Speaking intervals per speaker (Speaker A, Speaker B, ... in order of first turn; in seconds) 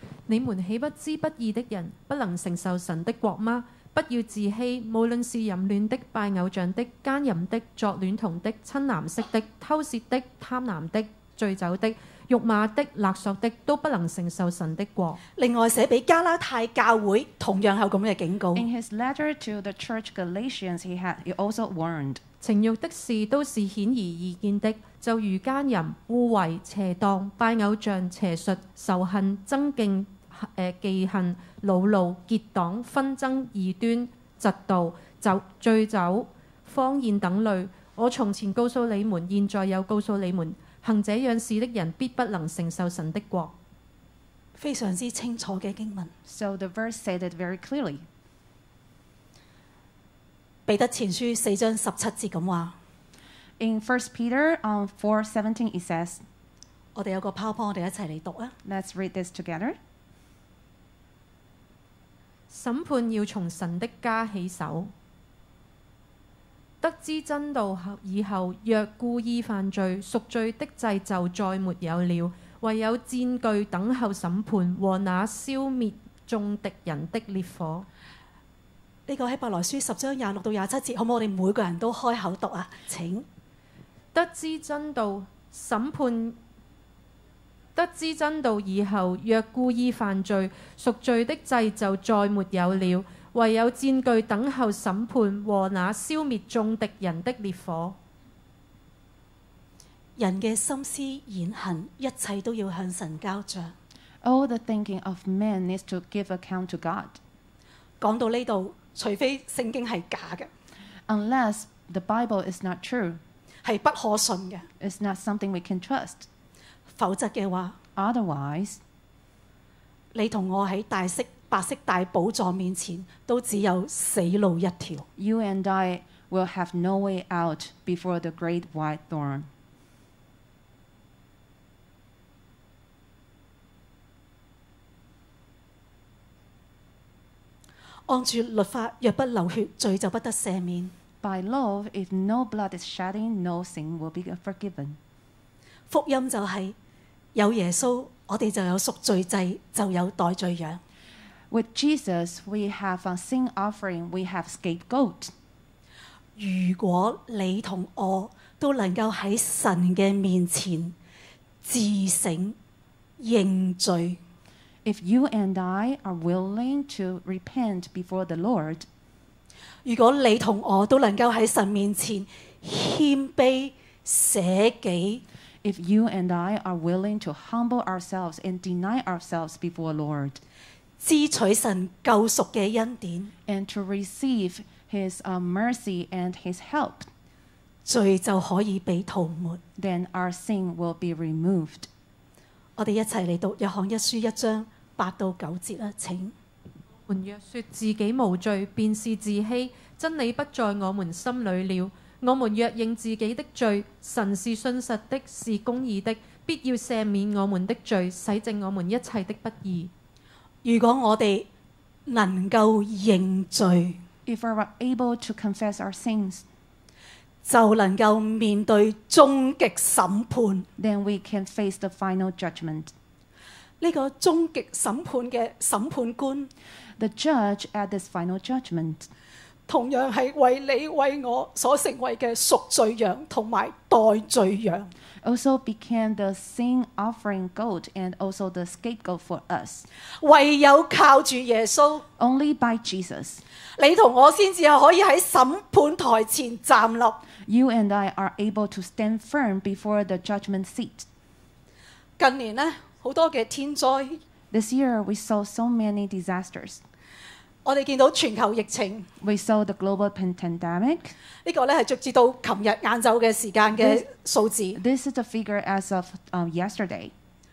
Speaker A: 0.3-15.2, 22.4-43.5, 62.5-64.9, 66.8-77.9, 84.1-86.4, 87.8-98.0, 197.1-209.9
Speaker B: 15.4-18.6, 44.6-46.1, 50.7-52.8, 57.0-58.5, 79.1-83.3, 100.2-103.7, 108.0-110.5, 113.7-114.7, 117.0-117.8, 120.1-125.0, 138.1-140.9, 145.9-146.8, 147.3-150.8, 156.4-160.9, 161.6-162.6, 163.2-164.2, 169.8-175.2, 181.0-183.3, 187.8-189.6, 192.8-196.3, 210.6-211.5, 212.1-214.0, 217.4-220.7, 223.8-226.5, 229.7-234.9, 240.2-242.0, 243.8-247.2, 252.2-254.2, 257.6-259.1, 261.4-264.8
Speaker C: 18.5-22.2, 46.3-48.0, 53.6-56.2, 58.6-59.8, 104.2-107.2, 111.1-113.2, 114.8-116.3, 118.0-118.8, 125.2-129.5, 141.2-145.0, 151.5-155.3, 164.8-168.9, 175.6-180.4, 183.5-187.1, 189.8-191.9, 214.3-216.5, 220.8-222.9, 227.0-229.1, 235.2-239.9, 242.2-243.4, 247.5-251.1, 254.5-256.8, 259.2-261.1, 263.7-264.0, 264.8-267.1